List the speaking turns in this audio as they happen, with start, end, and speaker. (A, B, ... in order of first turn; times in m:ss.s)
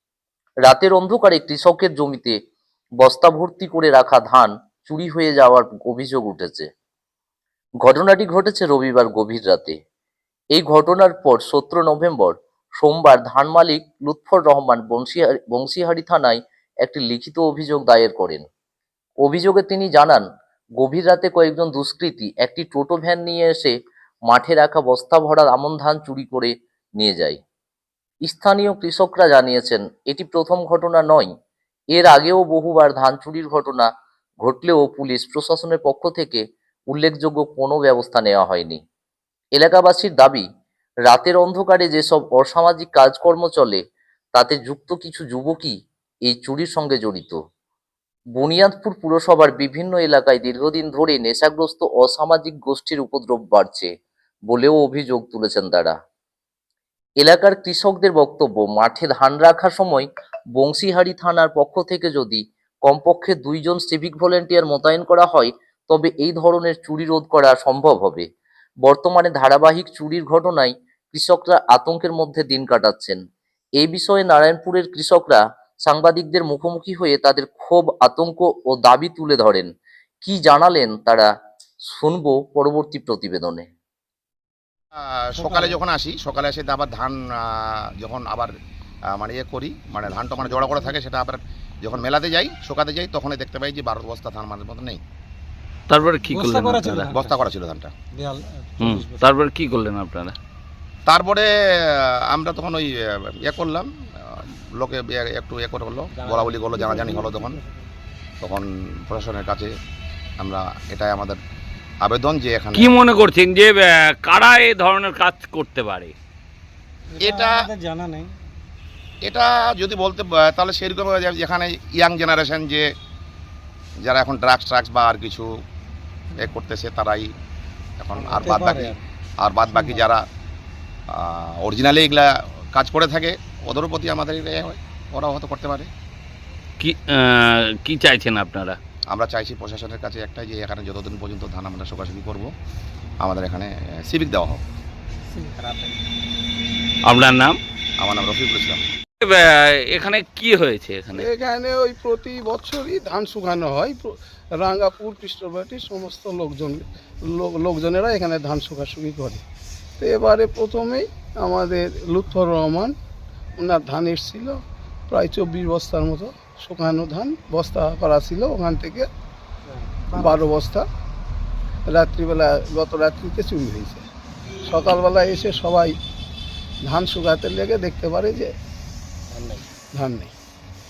0:00.6-0:02.4 A
0:03.0-0:06.7 A
0:07.8-0:09.8 A
0:10.5-0:18.4 A
0:19.2-0:20.2 A
0:20.8-0:23.7 A
0:24.3-0:27.4 A
0:28.3-0:31.3 A
0:31.9-0:33.9 A
0:34.4-0:38.8 A
0:39.6-0:40.4 A
0:41.1-0:43.8 A
0:44.4-0:45.8 A
0:46.3-0:47.4 A
0:48.4-0:53.9 A
0:54.5-0:56.0 A
0:57.2-1:00.1 A
1:00.6-1:08.3 A
1:08.8-1:13.2 A
1:13.8-1:19.7 A
1:20.2-1:21.3 A
1:21.9-1:23.7 A
1:25.0-1:28.5 B
1:29.1-1:35.0 B
1:35.9-1:37.1 C
1:36.3-1:37.4 D
1:37.1-1:38.0 B
1:38.1-1:39.4 D
1:38.8-1:40.4 C
1:41.1-1:47.6 B
1:46.2-1:47.6 D
1:48.4-1:49.7 B
1:50.4-1:51.4 B
1:52.0-1:53.0 B
1:52.7-1:56.1 C
1:57.1-1:58.3 D
1:57.2-1:57.7 B
1:59.2-2:02.9 B
2:04.0-2:05.5 B
2:06.4-2:07.3 B
2:08.0-2:10.2 B
2:08.2-2:09.0 D
2:11.1-2:15.9 B
2:16.8-2:18.8 C
2:19.1-2:22.5 B
2:23.2-2:24.6 B
2:25.3-2:26.0 D
2:27.0-2:27.6 C
2:28.0-2:28.9 B
2:29.2-2:31.3 C
2:31.1-2:39.4 E
2:40.0-2:42.9 E
2:43.6-2:49.1 E
2:49.8-2:50.5 D
2:50.2-2:50.9 E
2:51.9-2:54.1 E
2:54.7-2:56.0 E
2:56.8-2:58.5 E
2:59.3-2:59.7 D
2:59.9-3:00.3 E